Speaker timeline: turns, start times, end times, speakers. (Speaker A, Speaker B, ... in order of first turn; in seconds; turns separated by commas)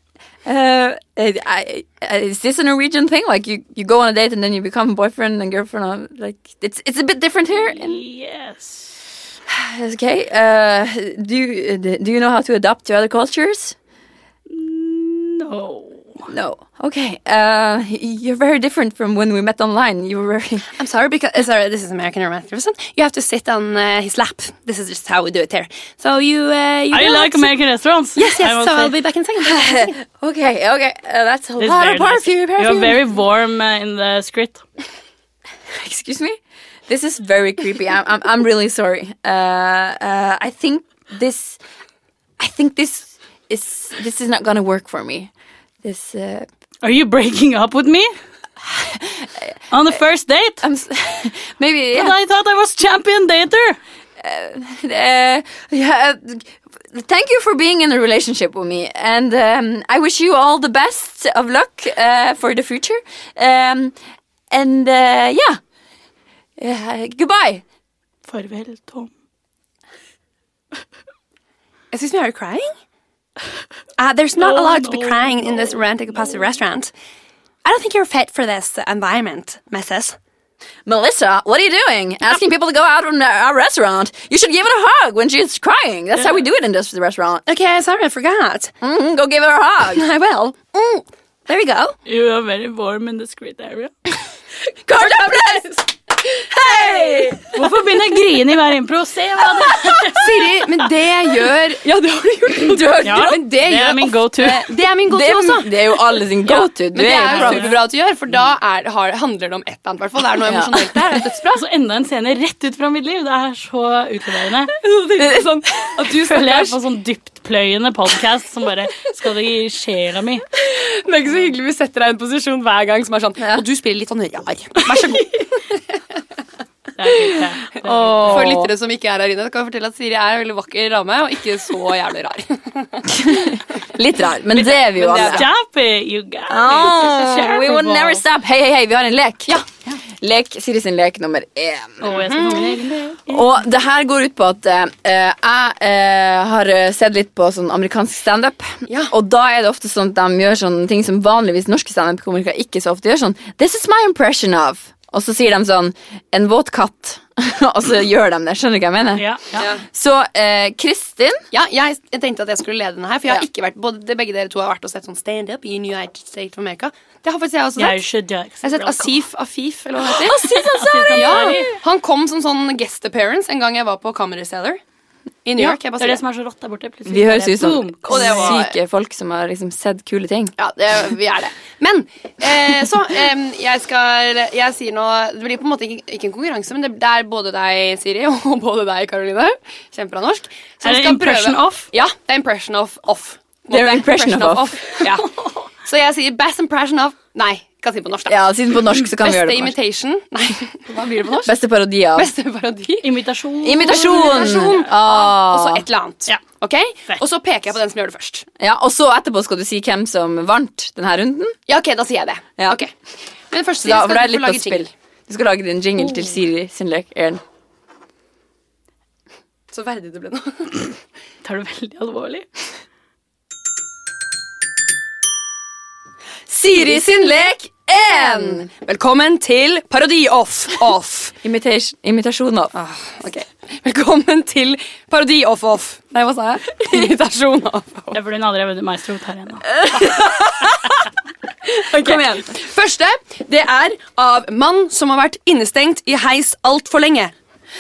Speaker A: 0.4-8.0, Speaker B: 7.5-9.0, Speaker A: 9.5-13.8, Speaker B: 14.5-16.3, Speaker A: 16.3-20.7, Speaker C: 20.8-27.5, Speaker B: 26.9-29.0, Speaker C: 28.1-30.0, Speaker A: 29.4-33.0, Speaker B: 31.6-34.6, Speaker A: 35.7-41.6, Speaker A: 42.4-45.3, Speaker A: 45.8-46.5, Speaker B: 46.8-48.1, Speaker A: 48.6-49.5, Speaker B: 49.7-50.6, Speaker A: 50.6-52.1, Speaker B: 51.9-53.8, Speaker A: 54.2-64.0, Speaker A: 64.5-65.6, Speaker A: 66.6-67.6, Speaker B: 68.2-69.1, Speaker C: 71.9-72.7, Speaker C: 74.0-76.9, Speaker B: 74.4-75.8, Speaker C: 77.6-80.2, Speaker A: 80.8-87.4, Speaker C: 87.5-88.7, Speaker A: 88.8-90.0, Speaker C: 89.9-92.0, Speaker B: 92.0-93.9, Speaker A: 94.8-97.6, Speaker C: 95.0-95.8, Speaker C: 96.7-97.3, Speaker B: 97.5-100.5, Speaker A: 99.6-100.0, Speaker C: 100.0-111.6, Speaker A: 102.5-103.4, Speaker B: 103.0-104.7, Speaker A: 105.1-107.7, Speaker B: 107.1-107.8, Speaker A: 110.4-111.0, Speaker B: 111.5-114.8, Speaker C: 114.8-116.8, Speaker B: 116.1-120.4, Speaker C: 120.5-125.7, Speaker B: 127.0-128.6, Speaker A: 127.8-128.7, Speaker C: 128.2-133.5, Speaker A: 133.1-135.5, Speaker B: 134.6-138.2, Speaker C: 134.9-135.4, Speaker A: 136.5-139.6, Speaker A: 140.1-142.6, Speaker B: 142.0-143.5, Speaker C: 142.0-142.7, Speaker A: 143.3-161.4, Speaker C: 148.9-149.1, Speaker B: 159.2-159.7, Speaker C: 161.5-168.0, Speaker B: 167.8-169.2, Speaker C: 168.6-170.5, Speaker A: 170.1-171.8, Speaker B: 170.4-171.7, Speaker C: 171.1-174.8, Speaker C: 175.4-176.2, Speaker B: 175.6-178.6, Speaker A: 177.1-180.5, Speaker C: 178.1-178.7, Speaker C: 180.6-198.4, Speaker B: 190.8-191.9, Speaker A: 193.7-194.8, Speaker A: 198.3-199.7, Speaker C: 199.2-201.5, Speaker A: 201.4-202.3, Speaker C: 202.1-203.1, Speaker B: 203.0-204.8, Speaker A: 203.6-205.8, Speaker C: 203.8-208.5, Speaker A: 208.6-211.6, Speaker C: 211.7-212.9, Speaker C: 213.5-214.9, Speaker A: 213.8-217.4, Speaker C: 219.7-220.8, Speaker B: 221.4-222.5, Speaker A: 226.5-228.7, Speaker C: 226.7-231.3, Speaker A: 231.4-232.7, Speaker C: 232.7-238.2, Speaker B: 238.1-239.9, Speaker A: 239.8-241.0, Speaker A: 241.7-242.5, Speaker C: 241.8-247.3